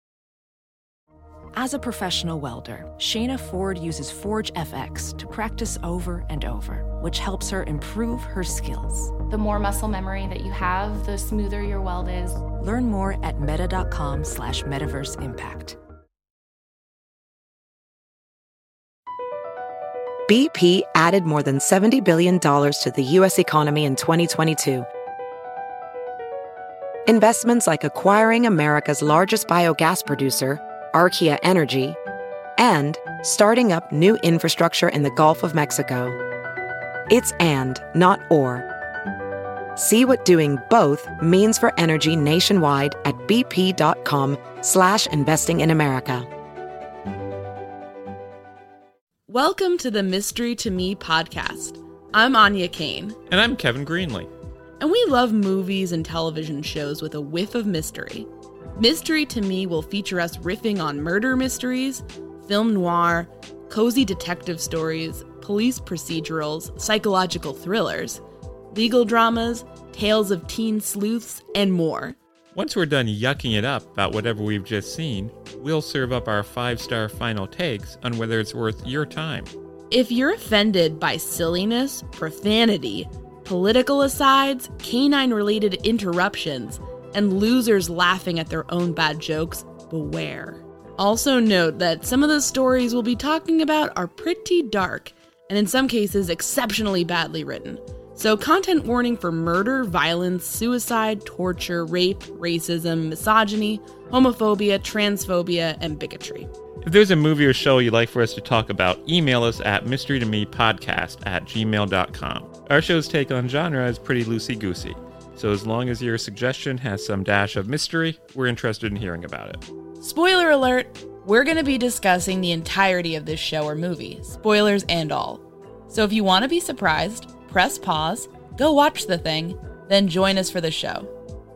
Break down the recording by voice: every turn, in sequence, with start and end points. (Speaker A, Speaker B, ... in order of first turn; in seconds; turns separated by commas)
Speaker A: 1.5-9.2, Speaker B: 9.3-12.4, Speaker A: 12.4-15.8, Speaker C: 20.3-24.9, Speaker C: 27.1-32.0, Speaker C: 32.6-36.2, Speaker C: 37.1-38.6, Speaker C: 39.8-46.3, Speaker D: 49.3-53.2, Speaker E: 53.3-54.3, Speaker D: 54.8-68.2, Speaker D: 68.7-72.2, Speaker E: 72.5-79.5, Speaker D: 79.9-106.5, Speaker E: 106.8-119.6, Speaker D: 120.0-131.1